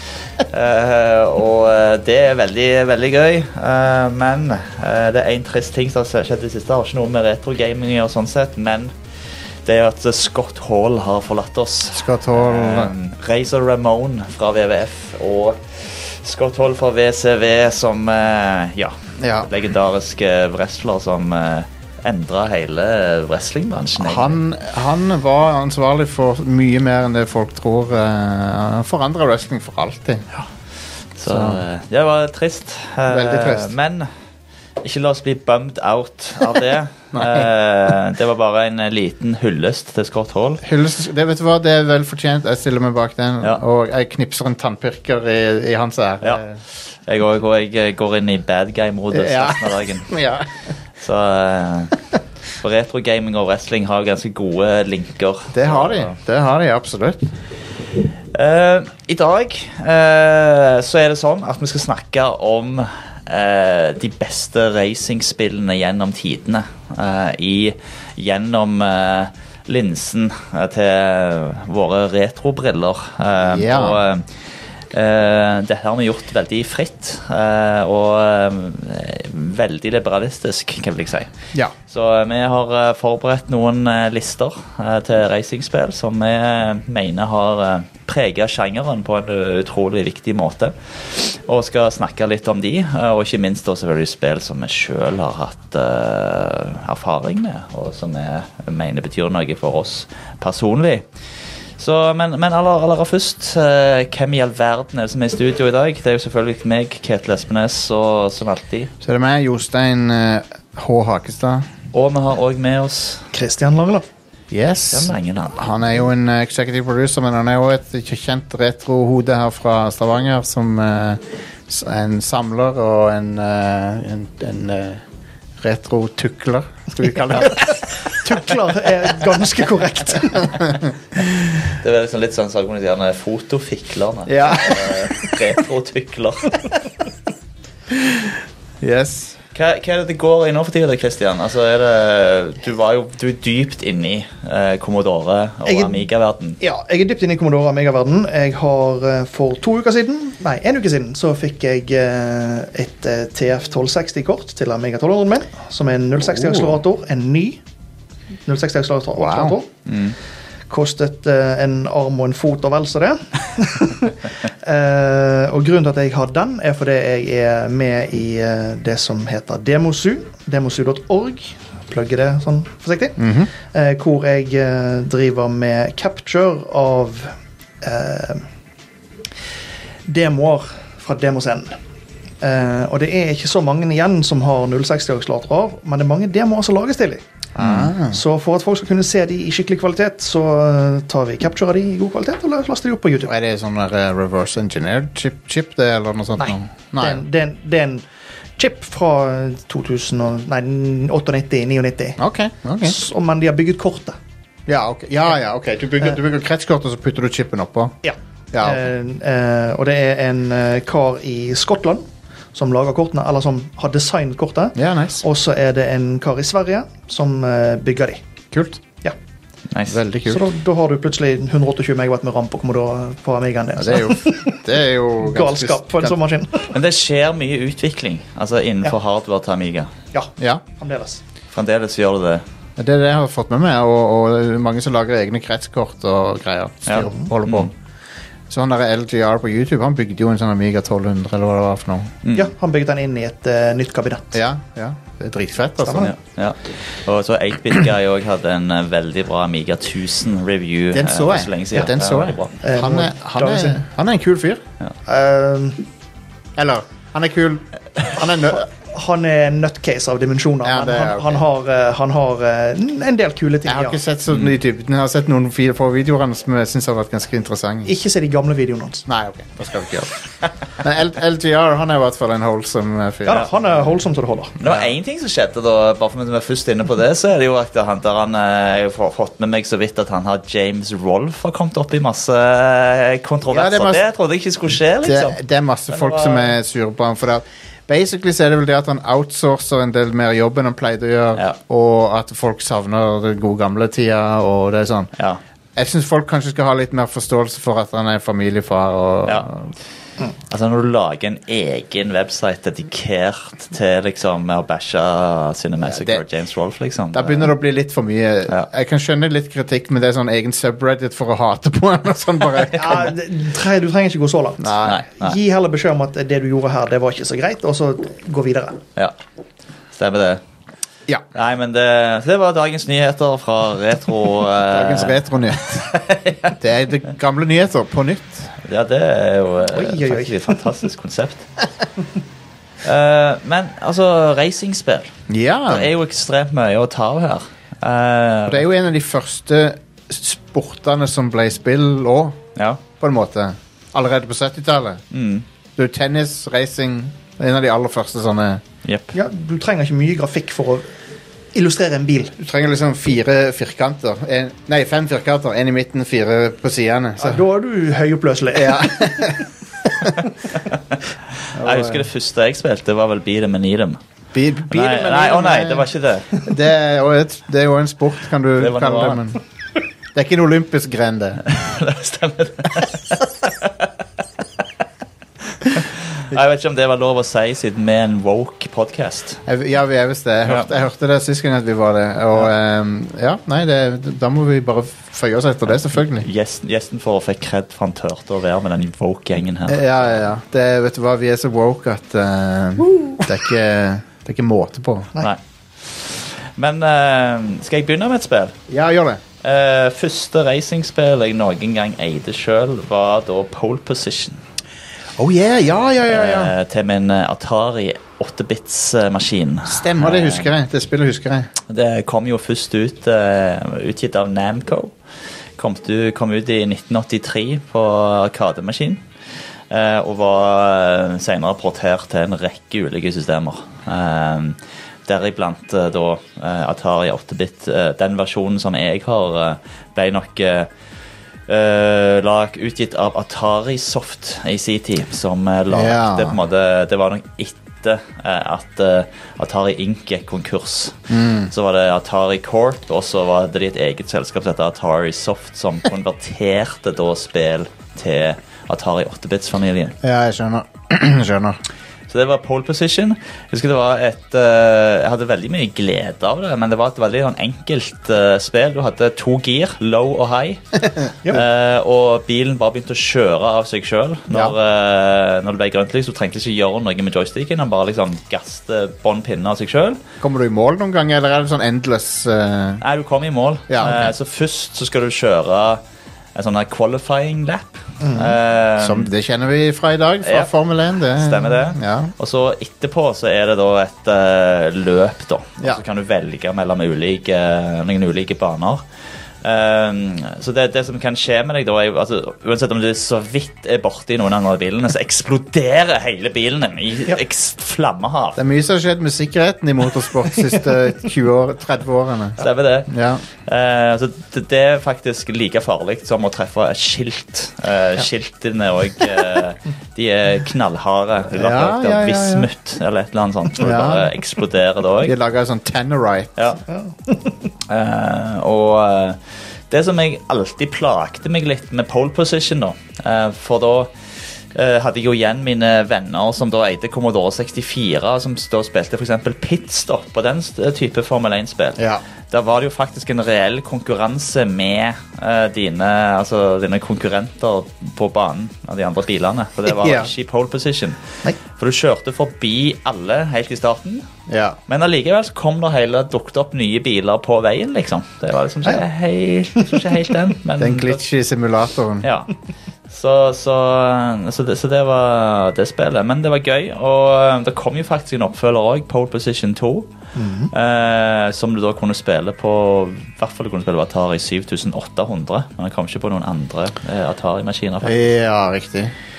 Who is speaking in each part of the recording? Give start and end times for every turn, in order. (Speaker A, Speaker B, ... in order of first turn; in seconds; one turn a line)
Speaker A: 0.4-8.9
Speaker A: 9.6-24.4
Speaker B: 11.9-12.9
Speaker B: 19.2-19.5
Speaker B: 24.0-30.2
Speaker A: 31.1-34.1
Speaker B: 31.3-31.6
Speaker B: 33.1-33.7
Speaker A: 34.8-40.6
Speaker B: 37.1-37.5
Speaker B: 40.6-46.6
Speaker A: 47.0-50.1
Speaker B: 49.1-50.5
Speaker A: 51.0-52.0
Speaker A: 52.6-56.1
Speaker B: 55.5-57.3
Speaker A: 58.3-74.4
Speaker B: 73.5-74.0
Speaker A: 74.9-81.3
Speaker A: 81.9-101.1
Speaker A: 101.8-108.9
Speaker B: 109.0-111.7
Speaker A: 111.9-113.3
Speaker C: 113.3-114.0
Speaker B: 114.5-125.0
Speaker A: 114.9-115.6
Speaker B: 125.6-128.3
Speaker C: 127.3-130.6
Speaker A: 131.7-136.6
Speaker B: 134.3-135.1
Speaker B: 137.9-139.4
Speaker A: 139.5-146.6
Speaker C: 145.6-146.1
Speaker C: 146.6-157.6
Speaker B: 156.2-156.8
Speaker C: 158.5-159.7
Speaker B: 159.1-159.6
Speaker A: 159.8-160.2
Speaker C: 160.7-173.2
Speaker B: 173.2-173.5
Speaker C: 173.7-178.4
Speaker C: 180.1-181.7
Speaker C: 182.4-193.3
Speaker B: 187.6-188.2
Speaker B: 193.2-197.2
Speaker C: 196.4-198.0
Speaker C: 198.6-202.2
Speaker B: 202.2-202.9
Speaker C: 202.8-204.2
Speaker B: 204.7-207.9
Speaker C: 208.0-218.2
Speaker B: 208.5-208.9
Speaker B: 214.8-215.2
Speaker B: 218.5-218.8
Speaker A: 219.7-220.0
Speaker B: 219.9-220.4
Speaker C: 220.3-224.6
Speaker B: 223.8-226.1
Speaker C: 225.2-226.7
Speaker A: 226.7-229.9
Speaker C: 230.1-231.2
Speaker B: 230.4-230.6
Speaker A: 231.5-232.4
Speaker B: 232.8-237.7
Speaker A: 236.8-237.7
Speaker B: 238.5-242.1
Speaker A: 242.2-242.5
Speaker C: 242.3-244.3
Speaker B: 244.3-246.1
Speaker C: 245.8-246.1
Speaker A: 246.0-252.6
Speaker B: 250.9-254.6
Speaker C: 252.6-253.8
Speaker C: 255.1-255.8
Speaker B: 256.6-258.7
Speaker C: 258.2-264.0
Speaker B: 260.6-261.4
Speaker B: 263.6-267.9
Speaker C: 267.9-269.1
Speaker B: 269.1-270.1
Speaker B: 270.7-273.5
Speaker C: 273.2-274.5
Speaker B: 274.6-274.9
Speaker A: 274.6-285.4
Speaker B: 283.5-284.0
Speaker B: 285.0-295.1
Speaker A: 285.9-286.5
Speaker A: 295.1-295.4
Speaker B: 295.8-299.7
Speaker A: 300.5-307.5
Speaker B: 305.8-306.2
Speaker B: 307.1-313.1
Speaker A: 312.6-313.1
Speaker C: 312.7-318.8
Speaker B: 314.6-315.0
Speaker A: 314.8-315.4
Speaker A: 319.9-320.4
Speaker A: 321.3-325.2
Speaker B: 324.7-325.9
Speaker A: 325.9-326.6
Speaker B: 326.5-328.5
Speaker A: 328.6-331.5
Speaker C: 329.7-330.6
Speaker A: 332.8-335.1
Speaker B: 335.3-335.9
Speaker A: 335.7-338.6
Speaker B: 338.5-342.4
Speaker A: 342.6-342.8
Speaker B: 343.0-345.0
Speaker A: 345.1-345.4
Speaker B: 345.8-348.6
Speaker A: 348.8-349.1
Speaker C: 349.1-350.9
Speaker C: 351.5-352.4
Speaker B: 352.4-357.4
Speaker C: 357.2-359.4
Speaker B: 358.5-360.1
Speaker A: 360.6-364.0
Speaker B: 361.6-362.1
Speaker B: 364.3-365.9
Speaker A: 364.7-366.3
Speaker B: 366.4-369.4
Speaker A: 368.6-369.3
Speaker B: 370.1-371.4
Speaker A: 371.4-373.9
Speaker A: 375.5-379.4
Speaker B: 379.4-386.3
Speaker A: 386.1-390.2
Speaker B: 389.7-395.1
Speaker A: 395.2-398.6
Speaker B: 398.7-399.2
Speaker A: 399.4-404.4
Speaker B: 405.2-406.5
Speaker A: 406.0-410.5
Speaker B: 409.6-411.5
Speaker A: 411.7-414.9
Speaker A: 415.6-419.0
Speaker A: 419.7-430.7
Speaker A: 431.5-450.0
Speaker B: 435.7-436.4
Speaker B: 441.1-441.5
Speaker B: 450.0-451.6
Speaker A: 452.1-470.0
Speaker B: 464.3-464.5
Speaker B: 470.2-472.8
Speaker A: 472.8-475.8
Speaker B: 473.7-474.1
Speaker A: 476.3-479.1
Speaker C: 478.0-478.4
Speaker B: 478.8-482.1
Speaker A: 480.2-480.5
Speaker A: 481.1-488.8
Speaker A: 489.4-498.4
Speaker B: 498.4-503.2
Speaker A: 502.4-502.9
Speaker A: 503.4-515.1
Speaker B: 511.3-512.5
Speaker B: 513.6-514.1
Speaker B: 515.0-516.5
Speaker C: 516.7-517.5
Speaker A: 517.7-523.9
Speaker A: 524.5-544.1
Speaker B: 539.6-540.1
Speaker B: 544.3-544.6
Speaker A: 544.7-551.0
Speaker B: 550.6-552.1
Speaker A: 552.0-552.3
Speaker A: 552.9-559.9
Speaker C: 560.1-560.5
Speaker A: 560.5-568.1
Speaker B: 567.8-568.9